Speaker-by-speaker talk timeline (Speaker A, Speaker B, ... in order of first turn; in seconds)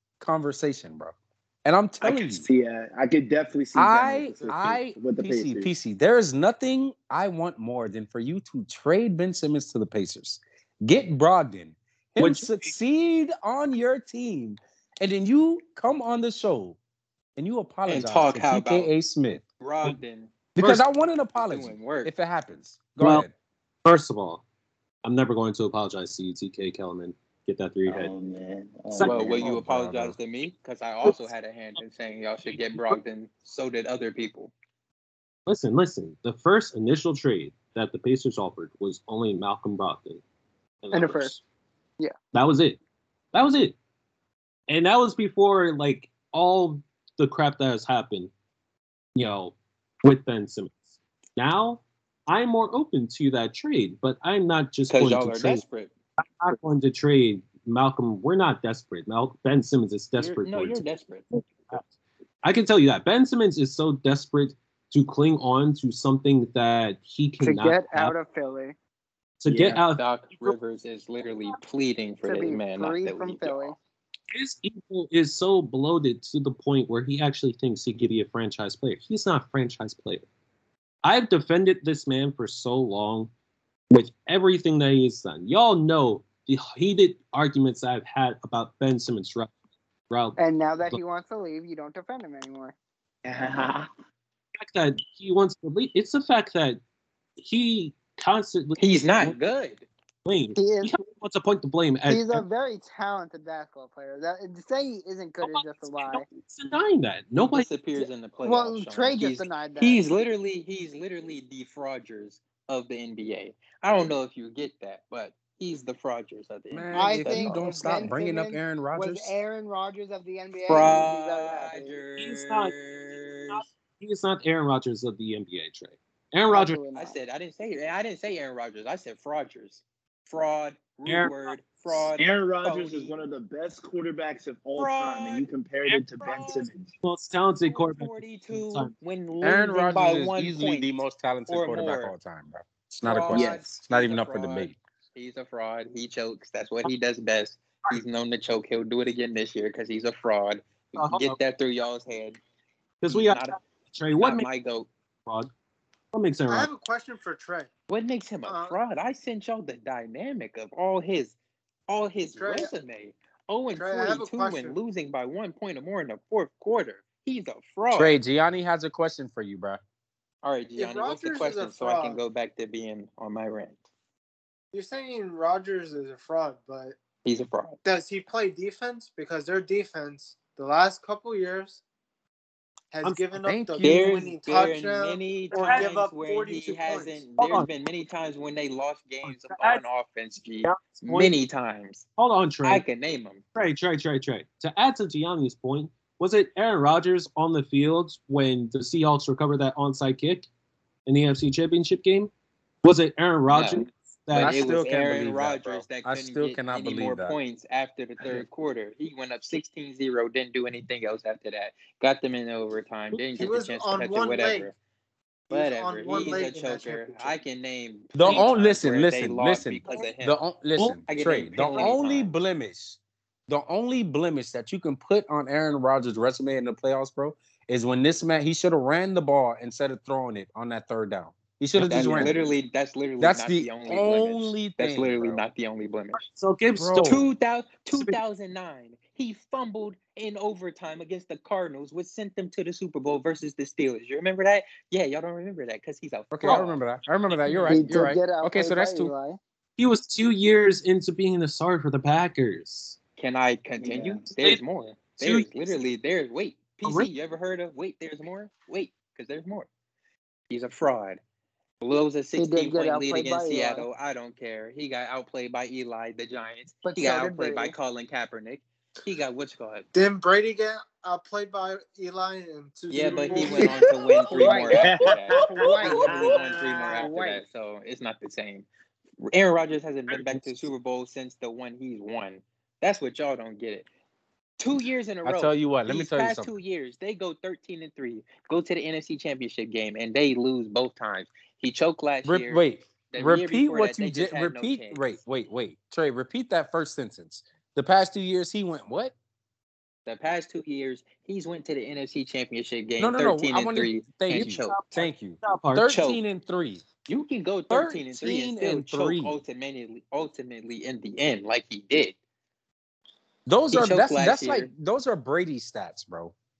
Speaker A: 0.2-2.5, 3.7-16.8, 17.4-19.4, 20.6-23.3, 29.4-30.2, 116.7-119.3, 139.4-144.7, 167.9-169.8, 183.4-184.3, 204.3-207.4, 218.1-232.4, 233.2-235.4, 236.8-237.2, 246.3-249.1, 285.2-286.5, 292.2-299.1, 303.0-306.8, 307.7-309.4, 313.4-316.3
Speaker B: 2.0-5.7, 27.8-29.6, 69.5-69.8, 93.2-93.9, 132.2-136.9, 143.3-143.6, 247.7-248.1, 253.8-254.2, 273.0-277.1
Speaker C: 4.3-4.6, 156.4-157.7, 158.4-158.8, 162.3-162.7, 163.7-164.8, 170.8-172.2, 174.7-177.0, 177.8-181.8, 182.9-187.2, 213.4-214.7, 215.5-217.4, 269.9-274.6
Speaker D: 12.2-12.7, 23.0-23.2, 23.8-24.4, 25.0-28.1, 28.9-29.4, 32.5-33.0, 35.5-40.2, 40.8-41.4, 42.3-42.8, 43.3-43.7, 44.7-48.3, 49.1-55.6, 56.2-61.9, 62.4-68.1, 69.4-70.5, 74.3-80.2, 81.0-83.3, 83.9-89.5, 90.1-91.0, 94.5-96.8, 97.4-99.4, 100.2-102.4, 105.4-108.0, 122.2-122.7, 123.5-126.8, 131.1-131.3, 135.9-136.4, 137.0-138.9, 151.0-151.4, 153.0-154.5, 155.2-155.5, 156.1-156.7, 183.0-183.3, 185.5-185.9, 187.4-187.7, 189.2-189.8, 190.6-191.4, 192.2-192.8, 193.5-200.5, 201.1-202.3, 202.8-204.7, 220.8-221.0, 231.8-232.4, 236.2-237.3, 237.9-238.2, 246.4-246.7, 247.4-247.7, 249.8-253.0, 254.3-254.6, 255.2-255.5, 256.8-257.1, 280.1-280.7, 304.3-305.9
Speaker E: 17.9-18.9, 19.6-20.8, 21.4-22.1, 29.0-34.5, 54.9-55.9, 60.2-61.3, 70.0-73.8, 98.8-99.8, 107.4-117.9, 120.7-123.6, 126.9-133.2, 134.8-135.4, 136.2-136.7, 137.7-142.1, 143.0-152.4, 153.1-153.6, 154.2-154.9, 157.9-161.3, 161.9-168.1, 170.4-173.8, 177.2-177.8, 183.8-192.1, 192.6-193.4, 203.5-214.7, 215.5-220.4, 221.1-222.3, 231.8-236.2, 237.0-246.8, 253.2-259.7, 260.5-261.2, 261.8-269.9, 272.9-278.6, 279.2-283.9, 284.6-295.0, 300.1-304.8, 305.9-306.2, 307.1-312.1, 313.7-314.7
Speaker F: 40.9-41.3, 67.4-68.8, 72.2-73.8, 90.4-92.7, 100.5-100.9, 102.0-106.2, 108.4-110.0, 116.9-122.0, 126.5-127.2, 247.7-249.4, 262.4-263.9, 266.8-267.7, 273.3-273.7, 274.3-277.4